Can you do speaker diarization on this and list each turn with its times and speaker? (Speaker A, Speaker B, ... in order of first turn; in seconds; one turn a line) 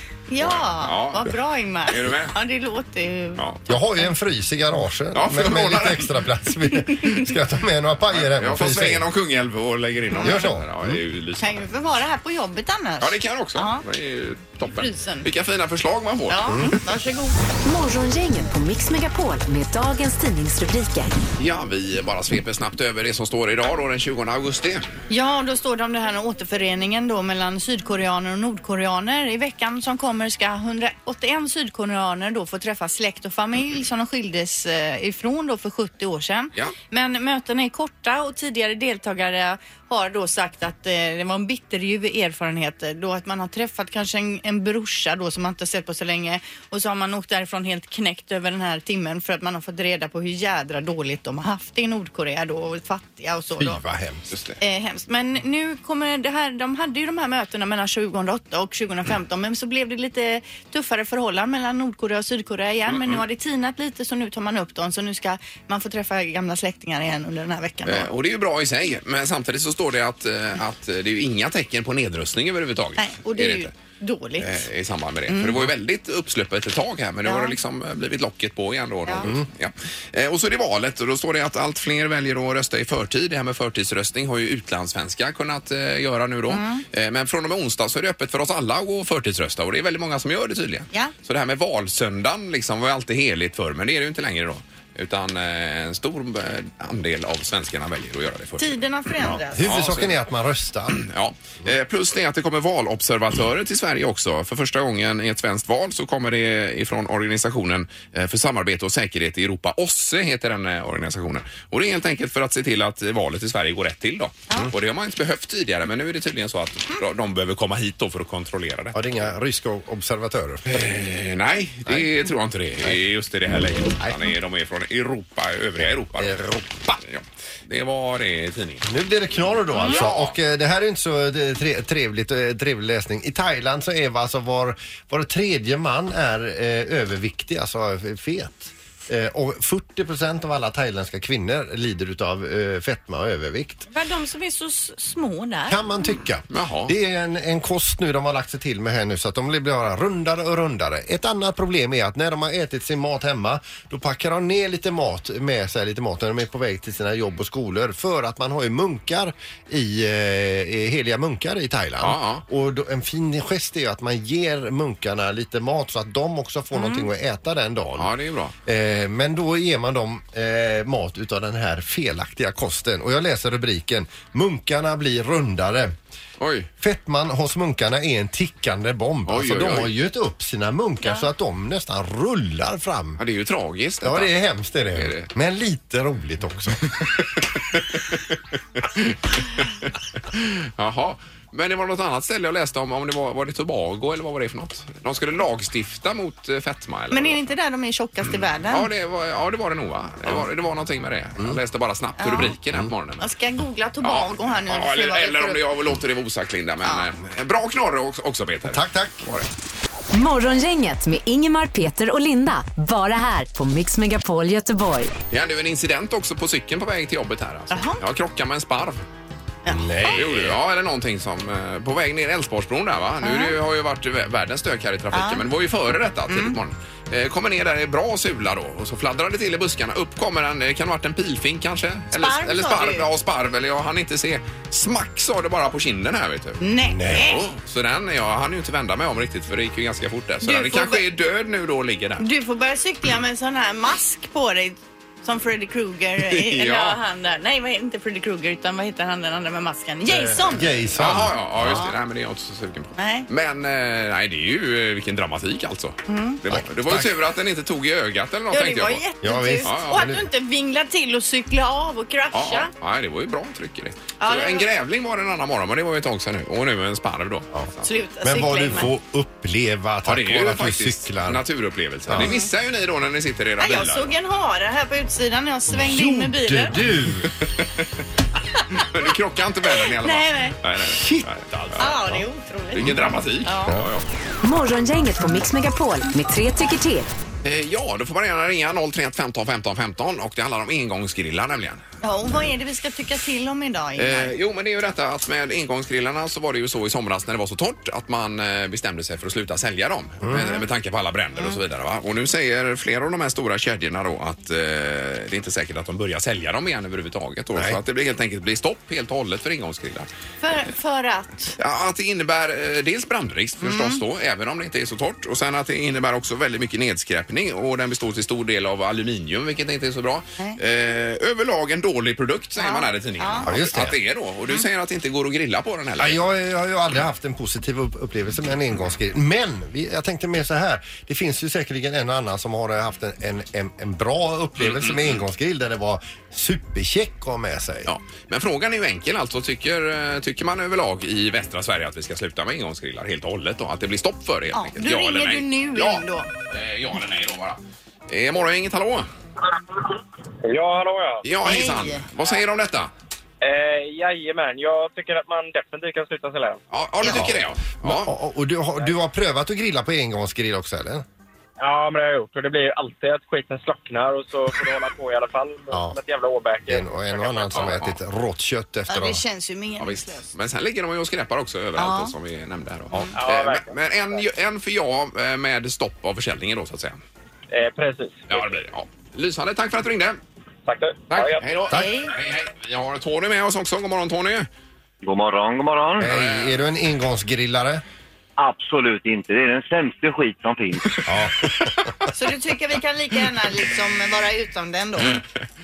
Speaker A: 0.3-3.4
Speaker B: 0.4-2.3
Speaker B: 3.4-3.6
Speaker C: 3.7-9.1
Speaker B: 5.1-6.2
Speaker B: 8.1-11.7
Speaker A: 10.1-10.4
Speaker C: 10.1-11.0
Speaker A: 11.4-13.8
Speaker B: 13.0-16.8
Speaker A: 14.7-15.3
Speaker A: 16.3-17.4
Speaker C: 16.5-16.8
Speaker D: 17.6-21.1
Speaker B: 21.4-24.9
Speaker A: 25.1-53.8
Speaker C: 53.6-54.3
Speaker B: 54.3-54.6
Speaker A: 54.6-68.1
Speaker B: 67.8-73.7
Speaker A: 73.0-74.7
Speaker B: 74.4-98.8
Speaker A: 75.3-75.7
Speaker A: 77.2-77.5
Speaker A: 86.5-86.8
Speaker A: 98.6-99.9
Speaker C: 99.2-101.0
Speaker B: 99.6-100.2
Speaker B: 100.9-119.0
Speaker C: 118.9-120.9
Speaker B: 120.7-126.4
Speaker C: 126.2-127.0
Speaker B: 127.0-128.9
Speaker C: 128.8-143.9
Speaker B: 129.8-130.3
Speaker A: 143.9-145.8
Speaker C: 145.7-168.1
Speaker B: 146.5-146.9
Speaker B: 162.0-162.4
Speaker A: 166.7-167.1
Speaker B: 168.0-168.5
Speaker C: 168.7-175.9
Speaker B: 176.4-176.7
Speaker C: 176.8-183.2
Speaker B: 179.2-179.9
Speaker B: 183.2-184.3
Speaker C: 184.0-186.9
Speaker B: 184.9-185.3
Speaker B: 187.7-197.4
Speaker A: 197.1-198.9
Speaker B: 198.7-203.3
Speaker A: 202.2-202.5
Speaker A: 203.2-205.6
Speaker B: 204.0-209.5
Speaker A: 206.8-207.1
Speaker C: 208.7-209.3
Speaker D: 210.1-215.1
Speaker B: 215.3-219.0
Speaker A: 217.7-218.0
Speaker A: 219.6-220.1
Speaker C: 219.7-220.6
Speaker B: 220.1-242.2
Speaker A: 223.2-223.6
Speaker A: 225.1-225.4
Speaker A: 226.3-226.6
Speaker A: 232.1-233.1
Speaker A: 236.6-237.4
Speaker C: 236.8-237.3
Speaker A: 240.4-241.0
Speaker A: 242.2-250.8
Speaker B: 246.2-247.0
Speaker C: 250.1-251.9
Speaker B: 250.9-259.0
Speaker A: 251.6-251.9
Speaker A: 252.9-253.3
Speaker A: 256.1-256.4
Speaker C: 256.5-257.1
Speaker A: 258.5-262.7
Speaker C: 259.2-260.2
Speaker B: 259.6-260.1
Speaker B: 262.3-267.8
Speaker A: 264.2-264.7
Speaker A: 267.8-268.9
Speaker C: 268.2-271.4
Speaker B: 270.0-274.1
Speaker A: 272.1-272.5
Speaker A: 273.6-276.8
Speaker C: 275.7-277.3
Speaker B: 278.7-281.9
Speaker A: 279.8-280.6
Speaker C: 280.8-281.3
Speaker A: 281.8-282.9
Speaker C: 281.8-282.2
Speaker B: 282.7-284.0
Speaker A: 283.4-283.7
Speaker D: 284.4-287.1
Speaker B: 287.4-291.8
Speaker A: 292.0-294.3
Speaker B: 294.0-310.1
Speaker C: 300.2-300.5
Speaker A: 300.3-300.6
Speaker A: 310.4-311.6
Speaker B: 311.6-326.2
Speaker A: 313.6-314.0
Speaker A: 322.6-323.5
Speaker C: 323.4-323.9
Speaker C: 326.0-337.9
Speaker B: 334.6-335.2
Speaker B: 337.9-349.1
Speaker A: 344.5-346.3
Speaker E: 350.4-351.3
Speaker B: 351.2-352.9
Speaker A: 351.4-352.1
Speaker E: 353.4-356.6
Speaker B: 356.7-358.1
Speaker C: 357.0-361.1
Speaker E: 361.6-367.6
Speaker C: 365.7-366.0
Speaker C: 366.7-369.2
Speaker B: 367.5-368.0
Speaker A: 368.9-370.3
Speaker B: 369.8-377.0
Speaker A: 371.8-372.1
Speaker E: 373.1-373.8
Speaker E: 377.5-378.5
Speaker B: 378.3-380.2
Speaker E: 380.6-381.4
Speaker B: 381.1-384.5
Speaker A: 381.7-382.1
Speaker F: 385.0-386.1
Speaker C: 386.0-387.8
Speaker B: 386.0-386.6
Speaker F: 388.4-391.0
Speaker C: 391.0-391.9
Speaker A: 392.1-395.2